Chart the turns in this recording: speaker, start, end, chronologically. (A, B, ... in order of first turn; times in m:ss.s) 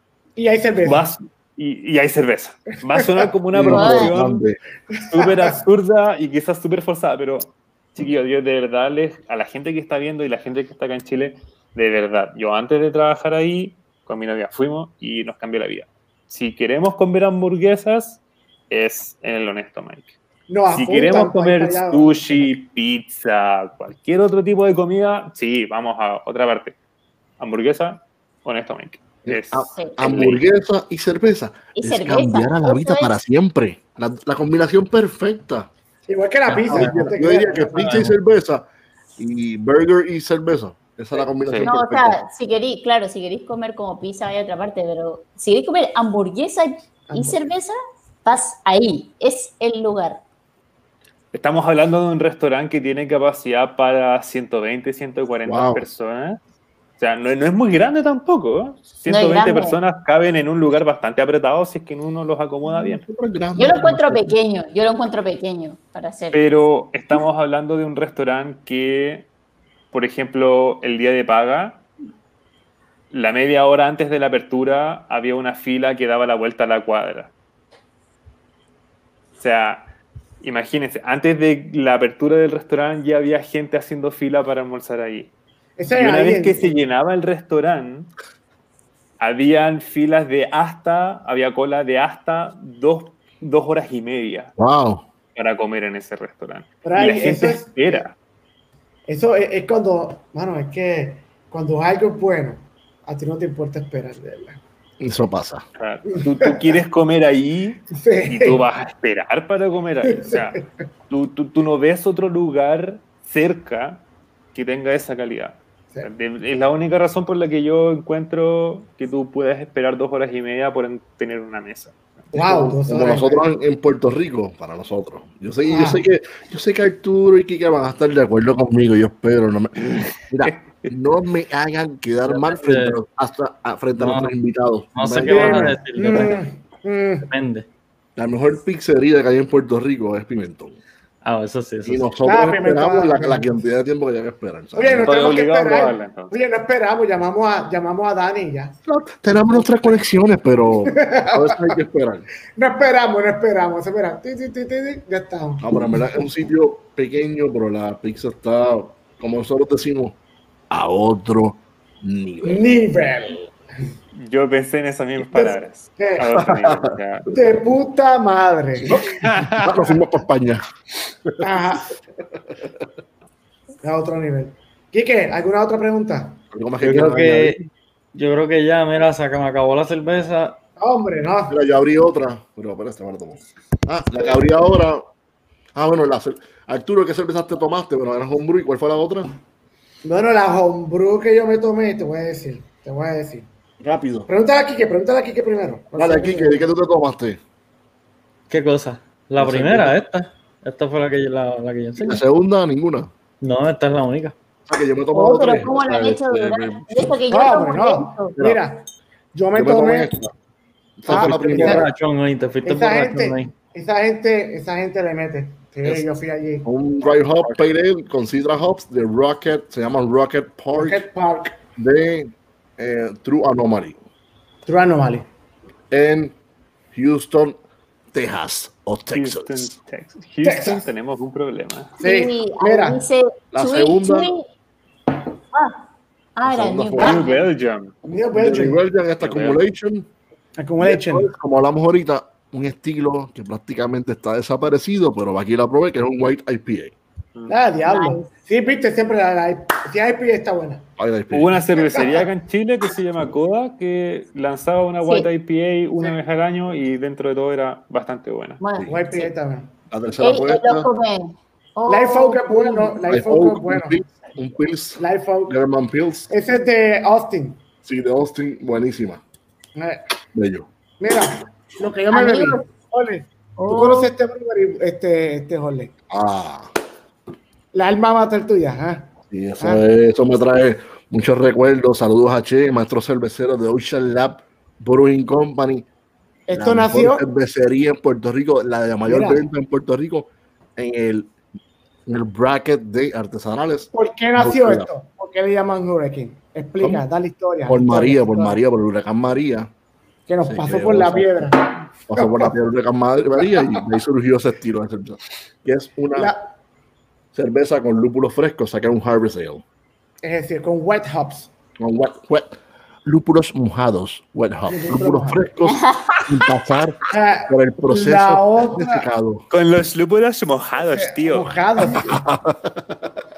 0:00.4-0:01.1 A
0:00.8-0:04.4 B
0:03.5-0:04.6 C
0:03.6-0:04.2 D
0:05.0-0:20.1 B
0:05.2-0:05.5 A
0:20.5-0:22.5 A
0:20.7-0:26.8 B
0:27.4-0:30.4 B
0:29.2-0:35.7 C
0:29.7-0:30.3 D
0:31.7-0:33.1 D
0:36.1-0:38.1 A
0:36.5-0:38.6 C
0:36.7-0:37.0 E
0:37.8-0:38.2 E
0:39.2-0:42.2 C
0:41.5-0:41.7 B
0:41.6-0:50.2 D
0:47.1-0:47.4 A
0:51.3-0:56.4 B
0:55.4-0:55.8 C
0:57.0-1:03.0 B
0:59.0-0:59.8 D
1:03.0-1:04.3 C
1:03.6-1:06.4 D
1:06.3-1:09.3 B
1:09.9-1:11.8 B
1:13.1-1:17.3 B
1:19.4-1:25.3 B
1:25.8-1:26.8 A
1:25.9-1:28.1 B
1:29.2-1:34.5 B
1:34.6-1:35.0 C
1:35.3-1:38.1 B
1:36.8-1:38.0 A
1:39.1-1:44.6 A
1:45.0-1:45.6 C
1:45.8-2:02.6 B
1:46.2-1:46.5 A
1:47.9-1:48.6 A
1:50.0-1:50.7 A
2:02.3-2:03.4 A
2:02.6-2:15.8 C
2:05.7-2:06.0 A
2:09.9-2:10.9 B
2:12.3-2:13.0 E
2:14.0-2:14.3 E
2:14.9-2:16.4 E
2:15.3-2:17.3 A
2:17.2-2:17.7 E
2:18.2-2:20.8 C
2:21.2-2:22.0 E
2:21.8-2:25.3 C
2:22.2-2:23.6 A
2:24.8-2:28.8 A
2:25.0-2:26.3 B
2:28.9-2:32.3 C
2:30.8-2:31.8 A
2:32.6-2:35.7 A
2:35.6-2:40.2 C
2:40.7-2:42.6 C
2:42.4-2:43.9 A
2:44.1-2:47.3 B
2:45.2-2:46.3 A
2:46.4-2:47.0 C
2:47.3-2:49.0 A
2:48.9-2:49.9 B
2:49.5-2:50.6 C
2:51.4-2:52.0 A
2:53.8-2:56.4 A
2:56.5-2:57.6 C
2:56.8-2:57.6 E
2:58.1-3:00.6 E
3:00.8-3:01.6 A
3:01.5-3:05.0 C
3:05.7-3:09.3 C
3:10.0-3:13.5 A
3:13.8-3:14.3 C
3:14.3-3:16.7 A
3:16.0-3:17.4 C
3:18.5-3:22.2 E
3:19.4-3:20.0 C
3:22.0-3:23.1 C
3:23.4-3:24.4 E
3:24.7-3:27.2 C
3:25.1-3:28.4 D
3:27.3-3:30.1 A
3:29.5-3:30.3 C
3:31.0-3:31.8 C
3:31.1-3:31.8 A
3:31.1-3:33.5 E
3:32.6-3:36.6 A
3:36.6-3:41.0 C
3:40.7-3:41.6 A
3:41.8-3:44.0 C
3:44.6-3:45.3 A
3:45.9-3:46.3 C
3:46.9-3:47.6 C
3:48.1-3:49.7 C
3:49.1-3:52.0 B
3:50.4-3:50.9 A
3:52.0-3:54.4 D
3:52.0-3:53.0 A
3:53.5-3:54.3 C
3:55.5-3:55.8 D
3:56.4-3:57.4 D
3:56.4-3:57.2 C
3:57.0-3:57.9 B
3:58.0-3:58.8 A
3:58.3-4:00.1 C
3:59.2-3:59.6 B
4:00.6-4:01.3 A
4:00.8-4:06.9 C
4:07.5-4:10.8 A
4:07.8-4:08.2 D
4:11.0-4:11.6 C
4:11.3-4:18.6 B
4:11.8-4:12.2 A
4:18.6-4:19.3 D
4:18.9-4:19.7 A
4:19.9-4:20.9 C
4:20.2-4:23.0 D
4:21.9-4:24.0 A
4:23.1-4:26.3 C
4:25.0-4:25.6 A
4:26.3-4:27.6 A
4:27.8-4:29.2 C
4:29.8-4:30.0 A
4:30.3-4:30.7 C
4:31.0-4:35.9 A
4:32.1-4:32.7 D
4:33.6-4:34.1 D
4:36.1-4:36.7 C
4:37.7-4:39.1 A
4:39.3-4:45.8 C
4:46.5-4:47.2 A
4:46.5-4:51.3 C
4:49.0-4:49.4 A
4:52.1-4:54.9 C
4:53.9-4:58.6 A
4:57.7-4:59.7 C
5:00.3-5:02.5 A
5:00.4-5:01.5 C
5:02.1-5:06.3 C
5:03.4-5:03.8 A
5:06.1-5:06.4 A
5:07.3-5:09.6 C
5:10.2-5:11.5 A
5:11.8-5:19.4 C
5:14.7-5:15.4 A
5:15.7-5:16.4 D
5:17.1-5:19.0 A
5:19.5-5:21.5 B
5:20.8-5:22.2 A
5:21.9-5:23.2 C